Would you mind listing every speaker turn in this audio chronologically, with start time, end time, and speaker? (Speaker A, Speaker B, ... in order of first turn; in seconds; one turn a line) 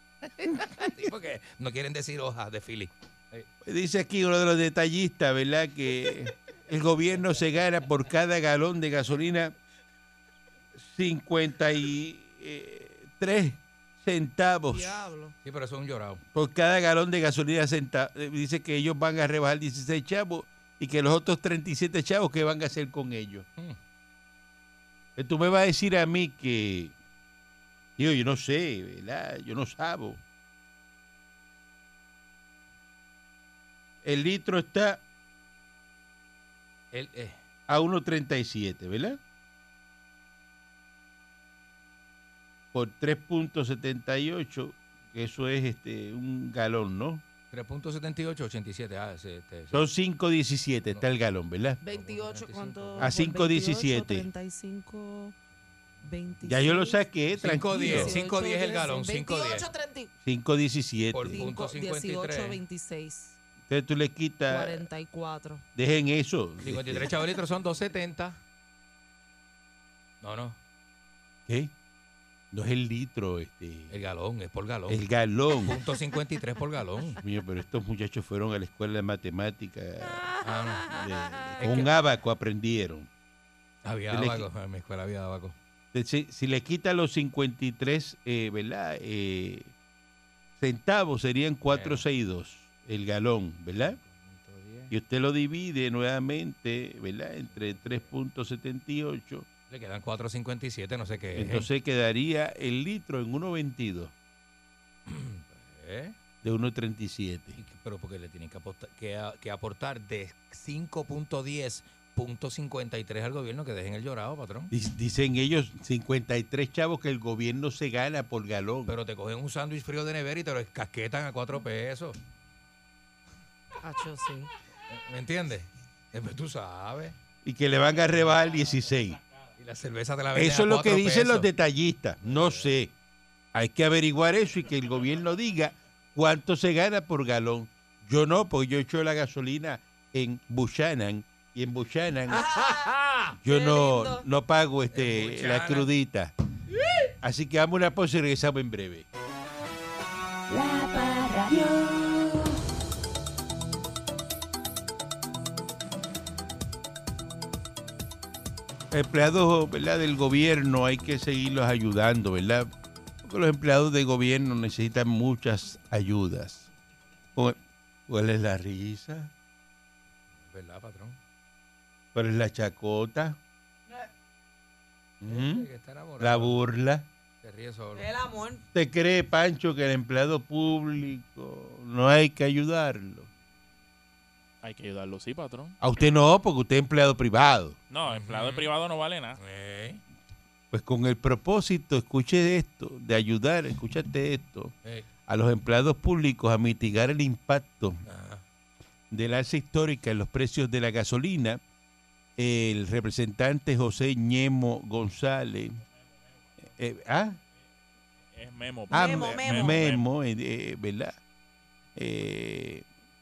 Speaker A: 0.2-3.5
Speaker B: 3.6-9.5
Speaker B: 10.7-15.1
Speaker C: 14.7-15.3
Speaker A: 15.4-16.2
Speaker B: 16.3-23.4
Speaker B: 25.1-26.9
Speaker B: 28.0-30.2
Speaker B: 34.0-35.0
Speaker A: 36.9-37.4
Speaker B: 37.7-39.2
Speaker B: 42.7-47.2
Speaker A: 47.5-49.9
Speaker B: 49.7-51.8
Speaker C: 51.8-55.4
Speaker A: 51.9-53.1
Speaker B: 53.0-54.3
Speaker C: 56.0-57.0
Speaker B: 56.4-58.2
Speaker A: 57.3-59.7
Speaker C: 57.8-60.1
Speaker B: 60.2-61.4
Speaker A: 61.1-62.6
Speaker C: 61.3-63.4
Speaker B: 63.6-64.9
Speaker C: 64.5-65.6
Speaker B: 65.7-67.1
Speaker A: 66.6-68.4
Speaker A: 70.2-70.6
Speaker B: 71.5-71.7
Speaker B: 72.5-74.0
Speaker A: 73.9-75.0
Speaker B: 74.9-75.8
Speaker A: 75.6-77.2
Speaker B: 77.2-80.3
Speaker A: 80.4-80.9
Speaker B: 80.8-83.1
Speaker A: 81.6-81.9
Speaker A: 83.8-85.5
Speaker B: 84.1-84.5
Speaker B: 85.9-89.7
Speaker B: 90.6-94.0
Speaker A: 91.7-92.0
Speaker A: 93.8-94.9
Speaker B: 94.9-99.5
Speaker A: 97.5-98.1
Speaker A: 99.7-101.7
Speaker B: 101.3-104.1
Speaker A: 105.1-106.2
Speaker B: 106.4-107.6
Speaker A: 107.6-114.7
Speaker B: 114.7-118.9
Speaker A: 118.8-122.2
Speaker C: 123.8-124.5
Speaker A: 124.9-127.2
Speaker B: 127.4-129.2
Speaker A: 129.6-131.5
Speaker B: 130.3-132.9
Speaker A: 132.2-132.7
Speaker B: 133.5-142.4
Speaker C: 142.3-142.9
Speaker A: 142.5-143.3
Speaker B: 143.4-146.3
Speaker C: 143.5-144.2
Speaker A: 144.9-145.9
Speaker B: 147.2-149.1
Speaker D: 150.5-152.5
Speaker B: 158.9-162.7
Speaker B: 163.2-166.7
Speaker B: 167.3-169.3
Speaker A: 170.4-171.2
Speaker B: 172.1-173.4
Speaker B: 175.2-175.7
Speaker A: 175.3-176.6
Speaker B: 176.2-177.1
Speaker A: 177.4-178.1
Speaker C: 177.9-178.7
Speaker B: 178.7-183.3
Speaker E: 184.6-185.8
Speaker B: 185.8-187.8
Speaker E: 187.9-189.4
Speaker A: 188.1-188.7
Speaker A: 189.4-190.0
Speaker B: 190.7-194.7
Speaker B: 195.3-198.0
Speaker A: 198.0-198.4
Speaker B: 199.1-201.6
Speaker B: 202.4-205.8
Speaker B: 206.6-207.4
Speaker E: 208.3-210.0
Speaker C: 208.9-209.8
Speaker B: 208.9-211.2
Speaker B: 211.9-212.8